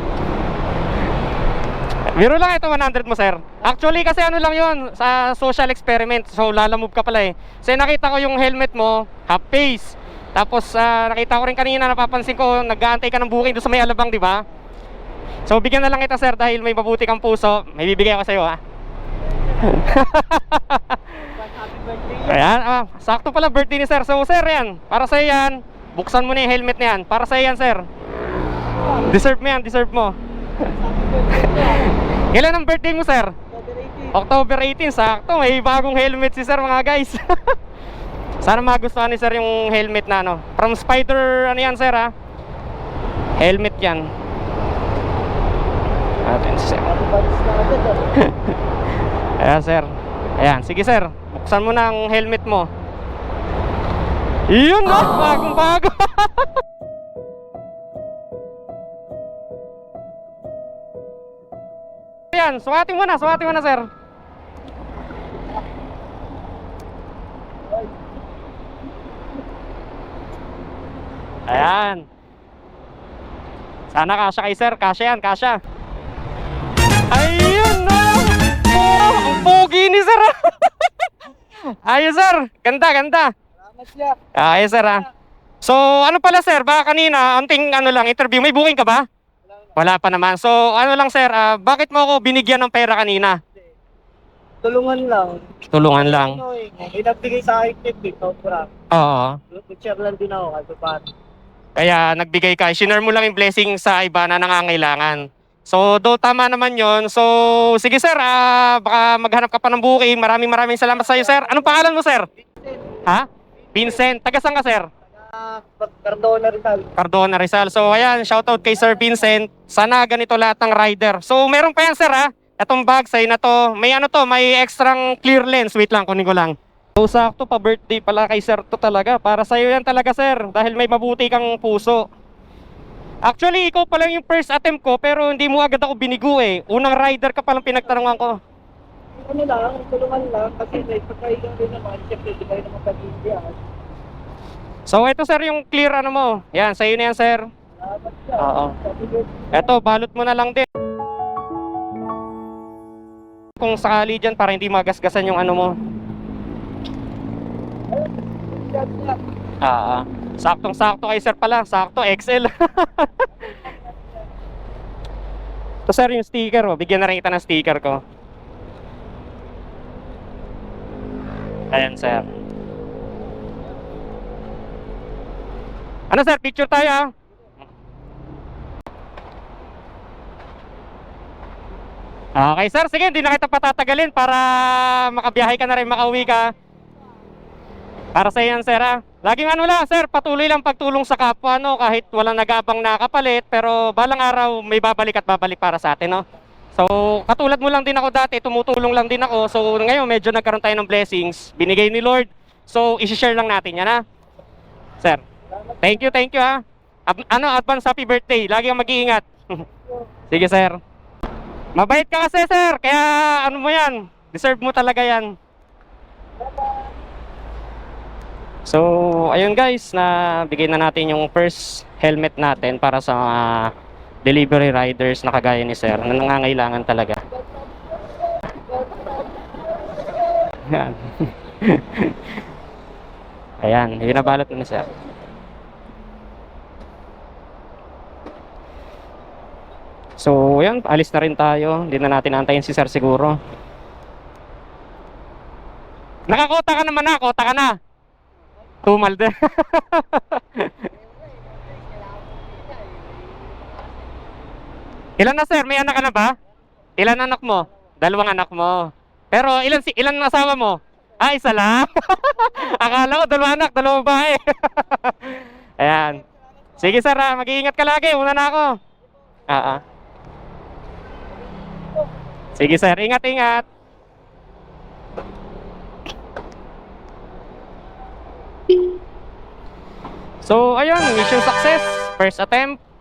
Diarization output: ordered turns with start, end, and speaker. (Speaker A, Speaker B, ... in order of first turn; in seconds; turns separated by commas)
Speaker A: 2.1-14.4, Speaker A: 15.5-18.6, Speaker A: 19.6-21.4, Speaker B: 21.4-22.2, Speaker A: 22.2-27.8, Speaker A: 28.9-30.1, Speaker B: 30.8-31.8, Speaker A: 31.3-33.3, Speaker B: 33.5-34.1, Speaker A: 34.1-37.5, Speaker A: 38.4-42.1, Speaker A: 43.4-44.1, Speaker A: 46.2-46.9, Speaker B: 46.9-48.1, Speaker A: 48.1-48.5, Speaker A: 49.4-52.7, Speaker A: 54.5-56.5, Speaker A: 62.3-63.9, Speaker A: 71.5-72.0, Speaker A: 73.9-75.6, Speaker A: 77.1-81.1, Speaker A: 81.7-83.3, Speaker B: 83.7-84.2, Speaker A: 84.3-85.0, Speaker A: 85.6-89.0, Speaker A: 89.8-93.4, Speaker B: 94.6-98.7, Speaker A: 95.7-96.4, Speaker A: 98.9-99.4, Speaker B: 99.5-101.1, Speaker A: 101.8-112.3, Speaker B: 112.5-113.0, Speaker A: 113.0-114.9, Speaker B: 115.1-116.9, Speaker A: 117.0-132.0, Speaker A: 133.2-138.3, Speaker B: 139.2-143.6, Speaker A: 144.9-147.4, Speaker B: 147.8-149.5, Speaker A: 148.4-148.8, Speaker A: 149.5-150.7, Speaker A: 153.6-155.7, Speaker B: 157.9-159.2, Speaker A: 159.6-163.3, Speaker A: 165.9-168.0, Speaker A: 171.7-172.3, Speaker A: 176.1-177.1, Speaker A: 182.4-186.5, Speaker A: 188.1-196.2, Speaker A: 196.7-204.0, Speaker A: 205.8-209.6, Speaker A: 210.3-210.8, Speaker A: 211.8-215.3, Speaker B: 216.5-216.9, Speaker A: 218.7-223.7, Speaker A: 224.2-227.2, Speaker A: 230.6-232.2, Speaker A: 233.6-234.9, Speaker A: 240.2-243.4, Speaker A: 246.3-247.7, Speaker A: 248.8-250.9, Speaker A: 255.2-256.3, Speaker A: 257.0-266.2, Speaker A: 266.8-268.7, Speaker A: 269.5-269.8, Speaker A: 272.6-273.6, Speaker A: 280.4-282.8